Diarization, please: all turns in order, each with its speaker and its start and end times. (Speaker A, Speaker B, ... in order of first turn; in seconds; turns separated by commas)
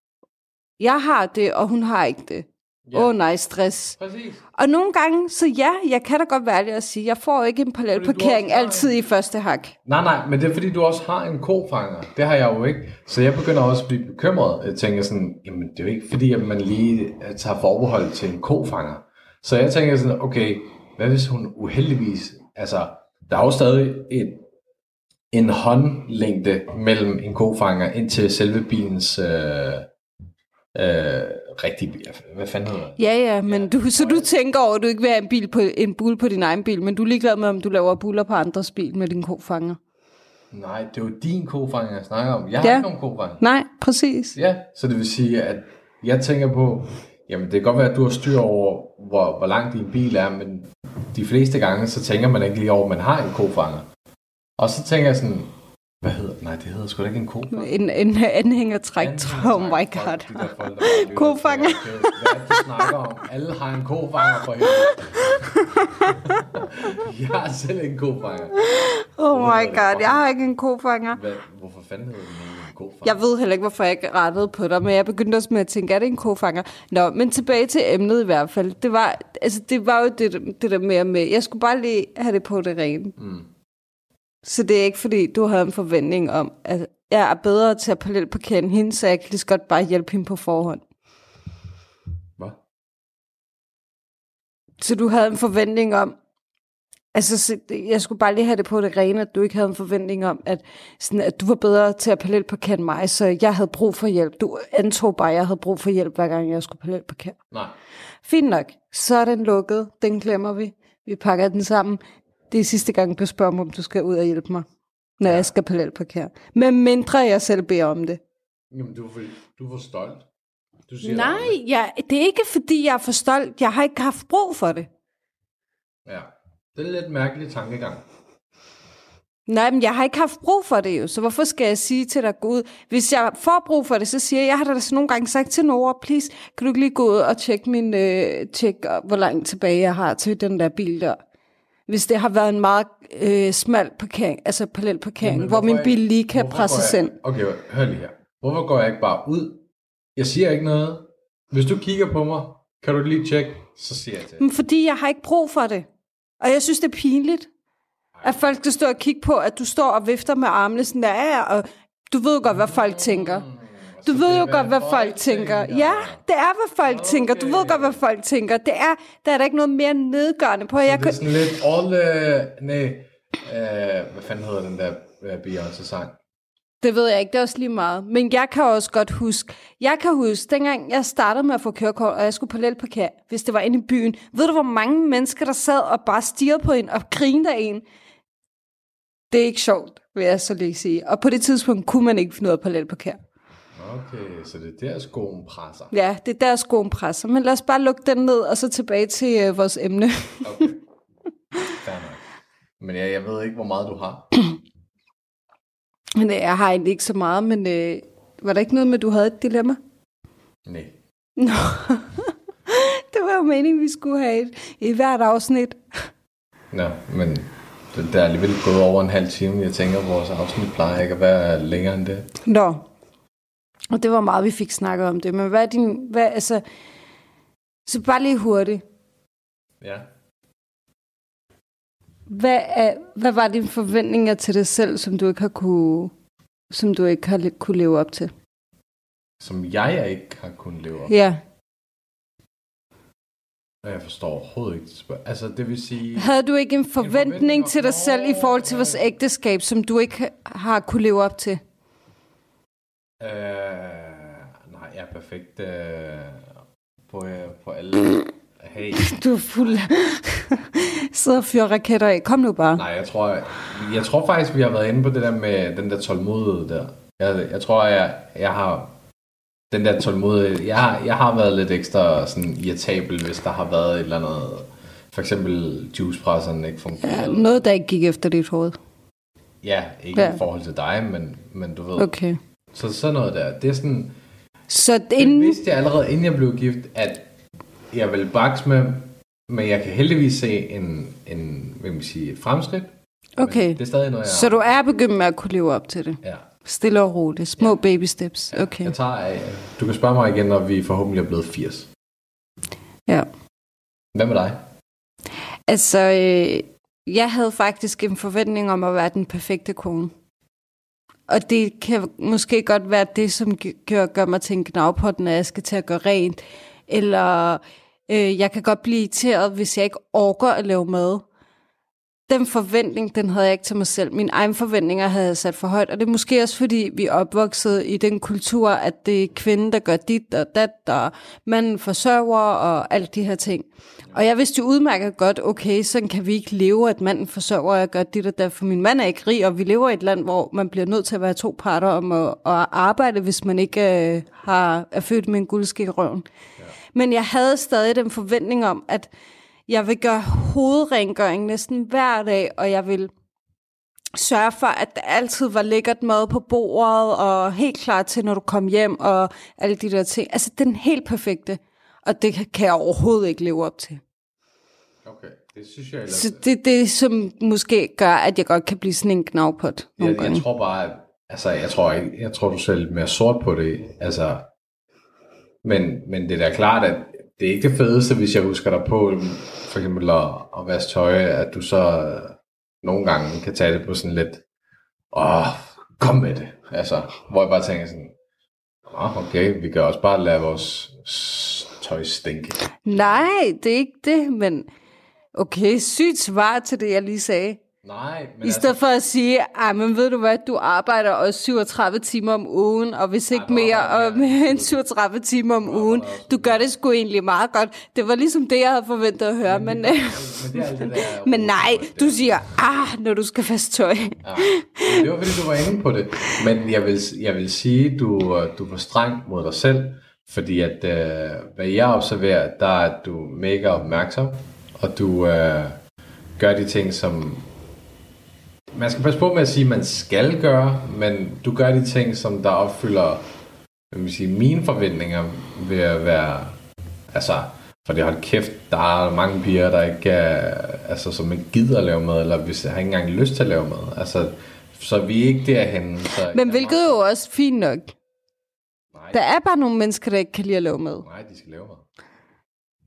Speaker A: 0.8-4.0, Speaker B: 2.9-3.1, Speaker B: 4.0-4.4, Speaker A: 4.5-9.7, Speaker B: 7.9-8.9, Speaker B: 9.8-24.4, Speaker B: 25.3-29.9, Speaker B: 30.7-34.3, Speaker A: 33.0-39.8, Speaker B: 40.5-43.4, Speaker A: 42.6-42.9, Speaker A: 43.4-44.3, Speaker B: 44.3-53.9, Speaker B: 54.6-57.7, Speaker A: 57.5-62.1, Speaker B: 59.0-70.2, Speaker A: 65.3-66.2, Speaker A: 68.6-71.2, Speaker B: 71.1-73.2, Speaker A: 73.0-83.1, Speaker B: 83.2-83.5, Speaker A: 84.4-90.8, Speaker A: 94.8-96.2, Speaker A: 97.1-107.3, Speaker A: 108.2-112.0, Speaker A: 112.5-114.7, Speaker A: 115.2-118.2, Speaker B: 115.2-115.5, Speaker B: 118.7-120.2, Speaker B: 120.9-121.6, Speaker A: 121.0-124.9, Speaker B: 126.0-128.0, Speaker A: 129.5-141.2, Speaker A: 141.9-147.1, Speaker B: 145.2-149.6, Speaker B: 150.2-154.4, Speaker A: 154.4-155.8, Speaker A: 156.4-157.5, Speaker B: 158.1-158.5, Speaker A: 158.2-163.4, Speaker B: 162.4-166.2, Speaker A: 164.0-171.2, Speaker B: 166.8-168.0, Speaker B: 170.8-176.1, Speaker A: 176.8-187.8, Speaker A: 189.3-193.2, Speaker B: 193.8-195.9, Speaker A: 195.9-200.7, Speaker B: 200.4-200.8, Speaker B: 201.7-202.2, Speaker B: 202.8-204.3, Speaker A: 206.2-209.8, Speaker B: 210.7-210.9, Speaker A: 211.4-216.0, Speaker B: 216.7-222.3, Speaker A: 222.4-222.8, Speaker A: 223.9-226.6, Speaker A: 227.8-228.8, Speaker B: 229.8-230.1, Speaker A: 232.3-236.1, Speaker A: 236.7-238.3, Speaker B: 239.4-241.1, Speaker A: 241.1-241.4, Speaker B: 243.8-246.3, Speaker A: 246.2-251.6, Speaker B: 247.0-249.1, Speaker B: 253.2-256.4, Speaker B: 257.1-259.8, Speaker A: 259.0-262.8, Speaker B: 262.8-268.9, Speaker B: 269.7-277.5, Speaker A: 277.0-278.8, Speaker B: 279.6-282.1, Speaker A: 280.1-280.4, Speaker A: 282.0-282.4, Speaker B: 282.7-284.1, Speaker A: 284.7-285.6, Speaker B: 285.2-287.3, Speaker B: 287.9-294.6, Speaker A: 293.4-298.9, Speaker B: 298.5-301.9, Speaker B: 304.1-304.6, Speaker A: 305.7-310.1, Speaker A: 311.3-321.2, Speaker A: 322.3-346.2, Speaker A: 346.9-349.1, Speaker A: 349.7-353.1, Speaker A: 354.1-364.0, Speaker B: 365.0-366.4, Speaker A: 366.1-370.4, Speaker B: 370.0-374.5, Speaker B: 375.6-384.4, Speaker B: 385.1-388.1, Speaker B: 388.9-393.2, Speaker A: 392.8-394.7, Speaker A: 395.3-397.6, Speaker B: 397.8-398.8, Speaker A: 398.4-415.0, Speaker B: 403.3-404.8, Speaker B: 405.6-406.6, Speaker B: 409.4-412.6, Speaker B: 414.2-425.8, Speaker B: 426.4-427.5, Speaker B: 428.7-433.3, Speaker B: 433.9-436.6, Speaker B: 437.1-447.0, Speaker A: 446.3-447.9, Speaker B: 448.9-449.2, Speaker A: 449.1-451.0, Speaker B: 451.0-451.8